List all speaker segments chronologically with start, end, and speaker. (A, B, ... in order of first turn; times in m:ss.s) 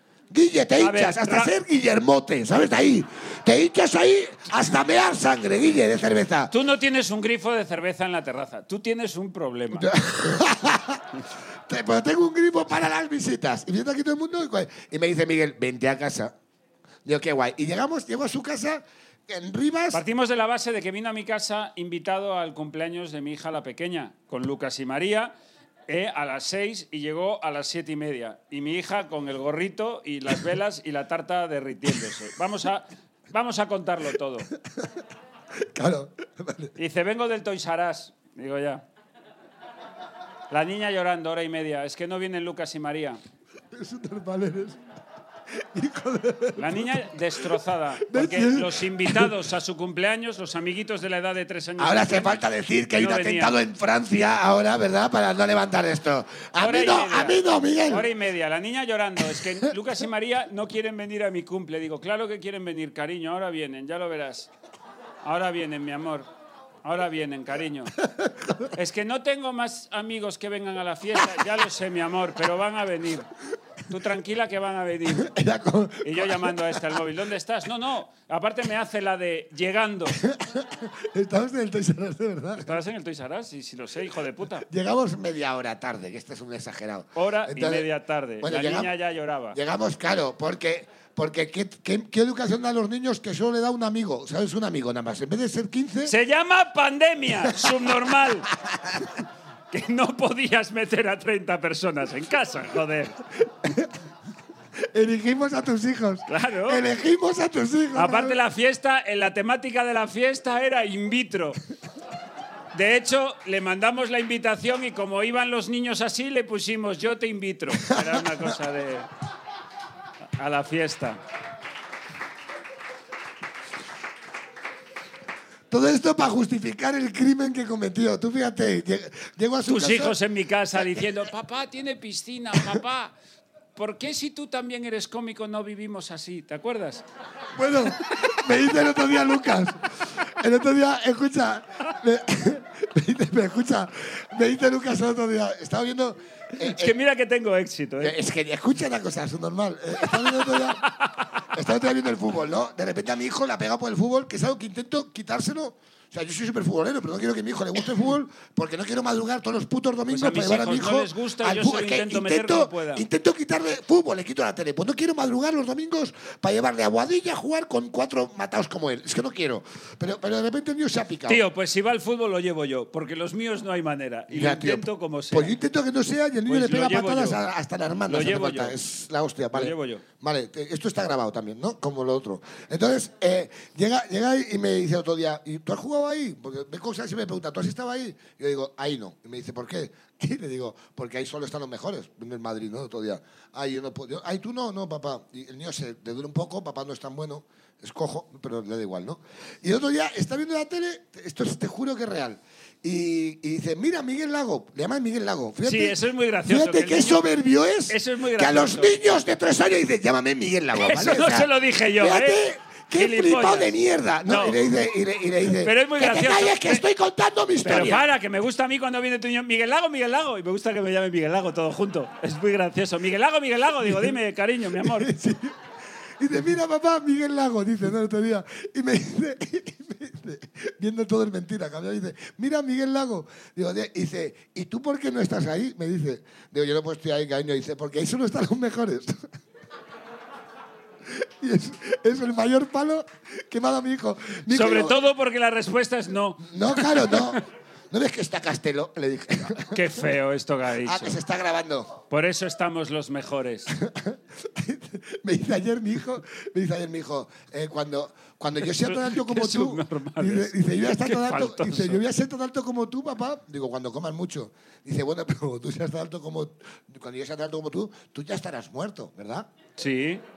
0:00.3-0:06.5 A
0:00.8-0:01.5 B
0:06.5-0:09.9 B
0:09.7-0:16.3 A
0:17.0-0:20.0 A
0:19.9-0:25.3 B
0:25.9-0:34.5 B
0:35.6-0:36.7 A
0:36.8-0:38.8 B
0:40.5-0:43.2 B
0:43.7-0:44.8 A
0:45.5-0:47.1 A
0:46.6-0:52.4 B
0:48.0-0:49.3 A
0:51.8-0:58.1 A
0:53.0-0:53.5 B
0:56.6-1:04.5 B
1:05.2-1:06.3 B
1:06.8-1:07.9 B
1:08.0-1:08.7 A
1:08.7-1:13.3 B
1:13.9-1:15.3 B
1:15.0-1:17.0 A
1:16.0-1:20.2 B
1:20.1-1:22.8 A
1:22.6-1:24.7 B
1:24.6-1:27.9 A
1:27.1-1:29.6 B
1:28.4-1:28.9 A
1:29.5-1:36.1 A
1:36.0-1:38.5 B
1:38.6-1:39.0 A
1:39.7-1:43.2 B
1:43.6-1:43.9 A
1:44.8-1:48.4 A
1:46.3-1:46.8 B
1:47.9-1:51.6 B
1:52.7-1:59.1 B
1:57.7-1:58.5 A
2:00.4-2:01.2 B
2:05.7-2:10.2 A
2:09.6-2:13.1 B
2:13.7-2:17.0 B
2:17.6-2:27.0 A
2:26.6-2:28.2 B
2:28.0-2:30.8 A
2:30.2-2:31.3 B
2:31.5-2:51.4 A
2:40.1-2:43.0 B
2:51.3-2:55.6 B
2:54.3-3:38.0 A
2:56.5-2:57.4 B
2:58.1-2:58.8 B
2:59.5-3:00.0 B
3:25.6-3:27.2 B
3:27.9-3:29.0 B
3:30.7-3:33.7 B
3:34.2-3:34.6 B
3:35.5-3:36.8 B
3:37.6-3:45.1 B
3:43.8-3:44.1 A
3:44.8-3:45.6 A
3:46.2-3:59.2 A
4:01.0-4:05.1 A
4:04.5-4:07.4 B
4:06.4-4:10.2 A
4:09.7-4:11.2 B
4:10.8-4:12.0 A
4:12.1-4:13.7 B
4:13.7-4:29.5 A
4:18.7-4:22.0 B
4:29.8-4:30.2 B